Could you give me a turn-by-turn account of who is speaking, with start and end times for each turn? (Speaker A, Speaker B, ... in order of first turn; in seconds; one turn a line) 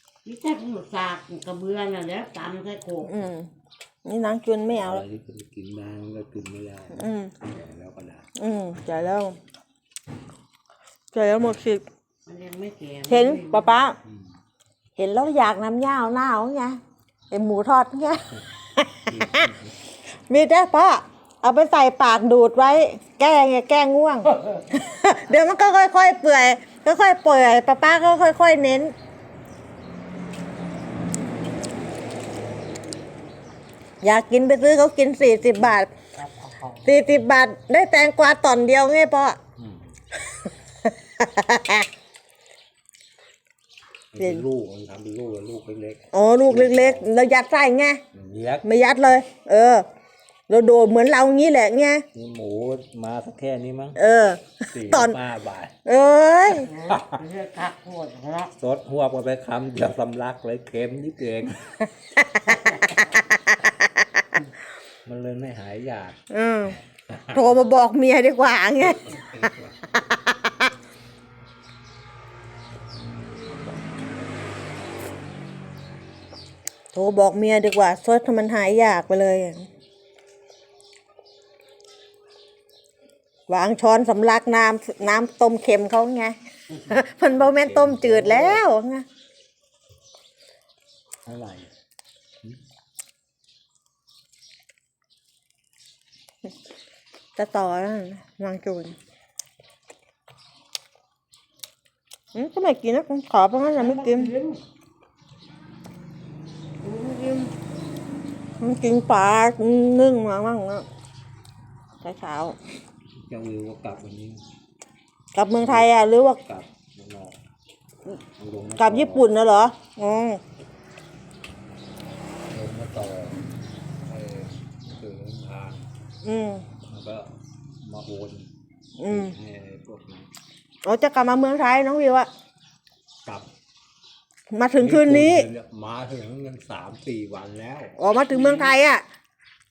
Speaker A: 0.2-3.2
Speaker B: 3.0-3.5
Speaker B: 4.0-5.0
Speaker C: 4.7-8.3
Speaker B: 6.9-7.3
Speaker B: 8.4-9.4
Speaker B: 11.1-11.8
Speaker A: 12.2-13.8
Speaker B: 13.1-13.9
Speaker B: 15.0-16.8
Speaker B: 17.3-19.5
Speaker C: 19.1-19.7
Speaker B: 20.3-28.9
Speaker B: 34.0-35.9
Speaker A: 36.2-36.8
Speaker B: 36.8-39.4
Speaker C: 39.6-39.9
Speaker B: 40.9-41.9
Speaker C: 44.1-47.1
Speaker B: 46.1-48.0
Speaker C: 48.1-48.6
Speaker B: 48.6-49.9
Speaker B: 50.5-52.0
Speaker C: 52.1-54.0
Speaker B: 54.0-55.2
Speaker C: 54.7-55.7
Speaker B: 55.8-56.7
Speaker A: 56.5-58.5
Speaker C: 56.9-57.1
Speaker C: 58.6-61.8
Speaker B: 62.0-64.2
Speaker A: 62.5-63.2
Speaker C: 65.0-66.2
Speaker B: 66.3-66.8
Speaker C: 67.1-67.4
Speaker B: 67.3-69.2
Speaker C: 68.8-69.7
Speaker B: 69.9-70.5
Speaker B: 76.9-79.7
Speaker B: 83.5-89.0
Speaker C: 87.4-88.6
Speaker C: 91.2-91.7
Speaker B: 97.3-98.9
Speaker B: 102.3-104.3
Speaker A: 103.8-104.6
Speaker A: 106.8-107.5
Speaker B: 108.6-110.8
Speaker B: 112.0-112.6
Speaker C: 113.2-114.4
Speaker B: 115.3-116.4
Speaker C: 115.6-115.9
Speaker C: 116.4-117.4
Speaker C: 118.4-119.3
Speaker B: 118.8-120.4
Speaker C: 122.5-123.4
Speaker C: 124.0-125.8
Speaker B: 126.2-126.7
Speaker C: 126.9-127.3
Speaker C: 127.8-128.5
Speaker B: 129.0-129.3
Speaker C: 129.1-130.3
Speaker B: 130.8-132.3
Speaker B: 134.5-135.5
Speaker C: 134.8-137.9
Speaker B: 138.0-139.0
Speaker A: 138.3-138.8